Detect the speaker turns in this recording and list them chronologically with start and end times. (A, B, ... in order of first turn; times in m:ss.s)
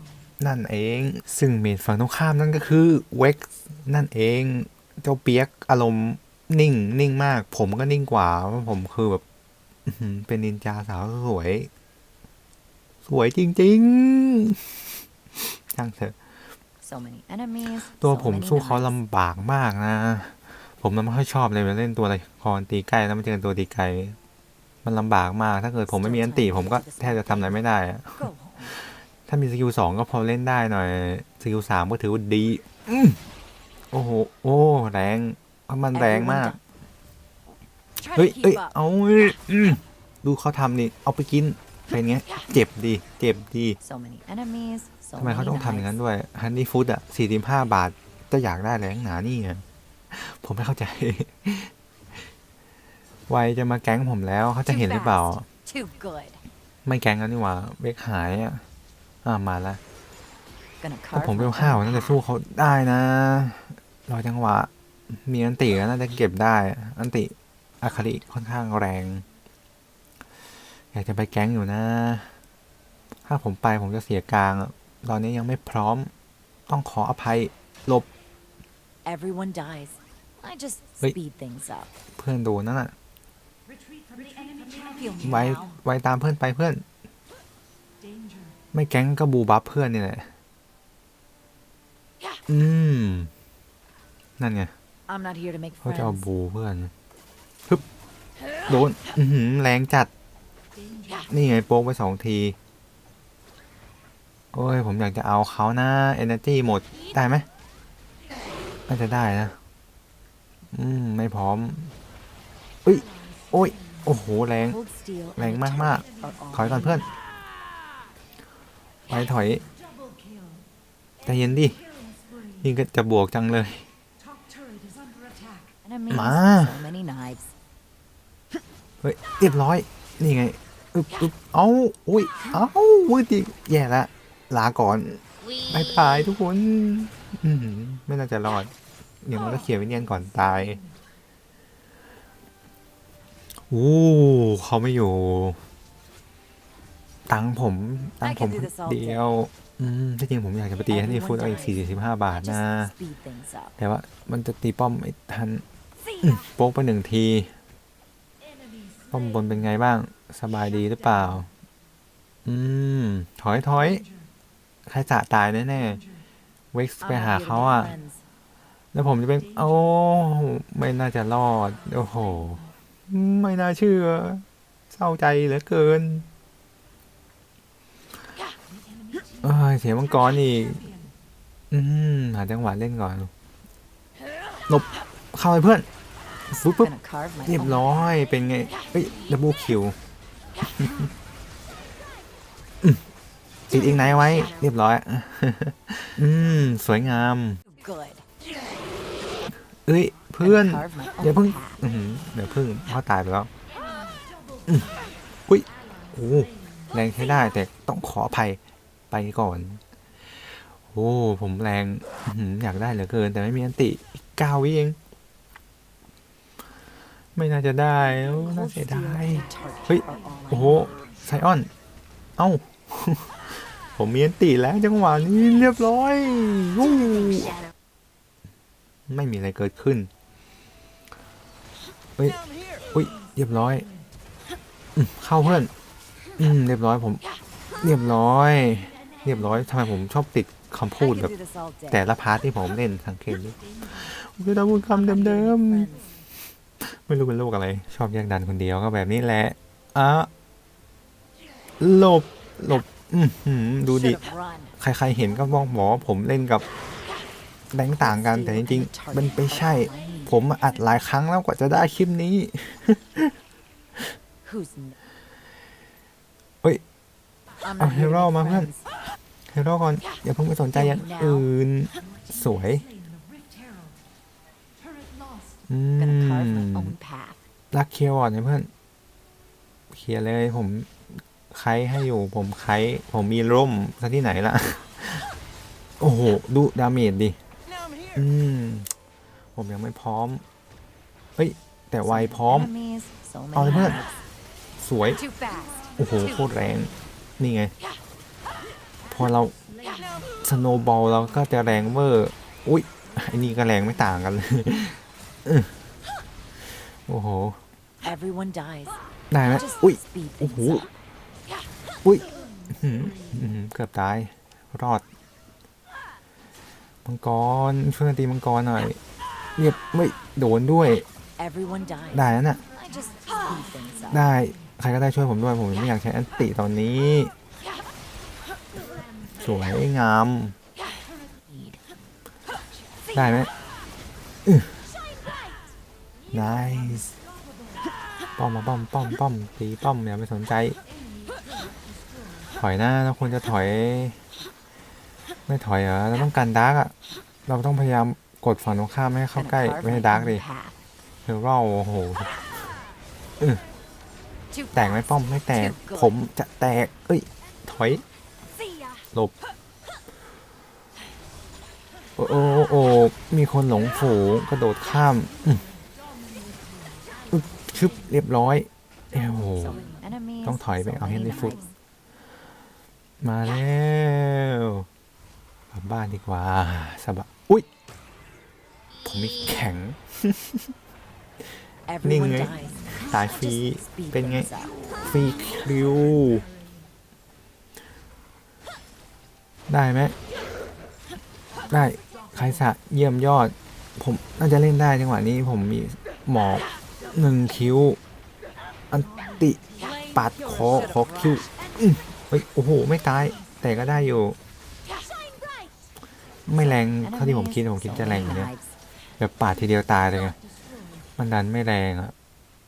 0:00.4-0:09.2 A
0:09.9-0:11.7 A
0:13.0-0:14.8 A
0:15.4-0:16.2 A
0:16.8-0:18.9 B
0:17.9-0:24.2 A
0:24.8-0:33.2 A
0:25.9-0:27.6 B
0:28.2-0:28.7 B
0:33.9-0:36.6 A
0:35.9-0:36.6 B
0:38.0-0:38.7 B
0:38.1-0:43.8 A
0:43.8-0:46.0 B
0:45.2-0:51.7 A
0:53.3-0:55.4 A
0:54.7-0:56.4 B
0:56.8-0:58.6 A
0:59.2-0:59.8 A
1:00.8-1:02.2 B
1:01.1-1:09.2 A
1:10.9-1:12.3 A
1:13.2-1:16.1 A
1:16.7-1:18.1 A
1:19.0-1:21.9 B
1:22.2-1:22.9 A
1:24.5-1:25.8 B
1:25.2-1:26.8 A
1:28.7-1:30.3 A
1:32.5-1:33.3 A
1:34.4-1:34.7 A
1:35.1-1:36.2 B
1:35.8-1:36.9 A
1:38.7-1:40.1 A
1:41.3-1:42.6 A
1:44.5-1:47.5 A
1:48.9-1:49.6 A
1:50.7-1:51.9 A
1:52.8-1:54.8 A
1:54.6-1:57.0 B
1:55.4-1:57.1 A
1:59.1-1:59.6 A
2:01.2-2:01.8 A
2:02.6-2:03.9 A
2:05.8-2:07.5 B
2:06.1-2:06.8 A
2:09.0-2:18.7 A
2:19.2-2:20.8 A
2:23.7-2:25.6 A
2:27.3-2:32.9 A
2:28.2-2:29.4 B
2:30.9-2:33.8 B
2:33.8-2:35.6 A
2:36.2-2:37.5 A
2:39.1-2:41.5 A
2:42.4-2:44.1 A
2:44.9-2:46.0 A
2:46.7-2:47.9 A
2:47.0-2:48.2 B
2:48.9-2:56.2 A
2:59.4-3:00.9 A
3:01.7-3:03.3 A
3:04.7-3:05.9 A
3:06.5-3:06.9 A
3:06.6-3:07.9 B
3:07.4-3:10.0 A
3:10.8-3:11.1 A
3:13.7-3:17.6 A
3:17.7-3:18.2 B
3:19.9-3:23.5 A
3:20.4-3:21.8 B
3:25.5-3:28.6 A
3:29.1-3:29.8 A
3:30.7-3:35.0 A
3:37.4-3:41.7 A
3:38.4-3:41.0 B
3:42.4-3:47.6 A
3:49.1-3:50.1 A
3:52.9-3:53.9 A
3:55.0-3:55.7 A
3:56.4-3:57.2 A
3:57.8-4:01.3 A
4:01.0-4:02.0 B
4:01.9-4:05.9 A
4:04.9-4:06.1 B
4:06.8-4:10.3 A
4:11.8-4:14.2 A
4:13.9-4:14.7 B
4:14.8-4:16.6 A
4:17.7-4:23.3 A
4:18.0-4:20.3 B
4:24.4-4:24.9 B
4:27.6-4:28.8 B
4:27.8-4:28.7 A
4:29.5-4:32.9 A
4:30.7-4:31.4 B
4:35.7-4:36.9 A
4:36.0-4:37.4 B
4:37.7-4:38.7 A
4:39.9-4:45.3 A
4:46.0-4:47.4 A
4:48.1-4:48.9 A
4:49.6-4:50.4 A
4:51.4-4:52.7 A
4:52.0-4:54.1 B
4:53.5-4:54.0 A
4:54.8-4:55.3 A
4:56.0-4:57.7 A
4:59.1-4:59.5 A
5:00.4-5:05.7 A
5:07.1-5:07.6 A
5:08.0-5:10.9 B
5:09.3-5:10.9 A
5:12.0-5:15.0 A
5:17.0-5:19.0 A
5:19.6-5:21.0 A
5:21.4-5:24.3 B
5:22.1-5:22.6 A
5:24.1-5:27.3 A
5:29.3-5:30.5 A
5:31.5-5:31.8 B
5:33.1-5:33.5 A
5:34.4-5:34.8 A
5:36.3-5:37.1 A
5:38.4-5:40.8 A
5:42.5-5:44.2 A
5:45.5-5:46.9 A
5:47.5-5:50.4 A
5:49.3-5:50.8 B
5:51.2-5:52.4 A
5:54.7-5:58.0 A
5:55.5-5:56.1 B
6:02.2-6:05.6 A
6:07.3-6:09.8 A
6:09.5-6:11.7 B
6:10.4-6:11.6 A
6:13.2-6:14.8 A
6:15.7-6:17.6 A
6:19.0-6:20.7 A
6:21.9-6:24.8 B
6:22.0-6:26.5 A
6:29.7-6:30.1 A
6:31.7-6:38.0 A
6:38.9-6:44.4 A
6:39.8-6:41.4 B
6:46.5-6:48.5 A
6:47.0-6:48.7 B
6:49.2-6:50.4 A
6:51.2-6:52.1 A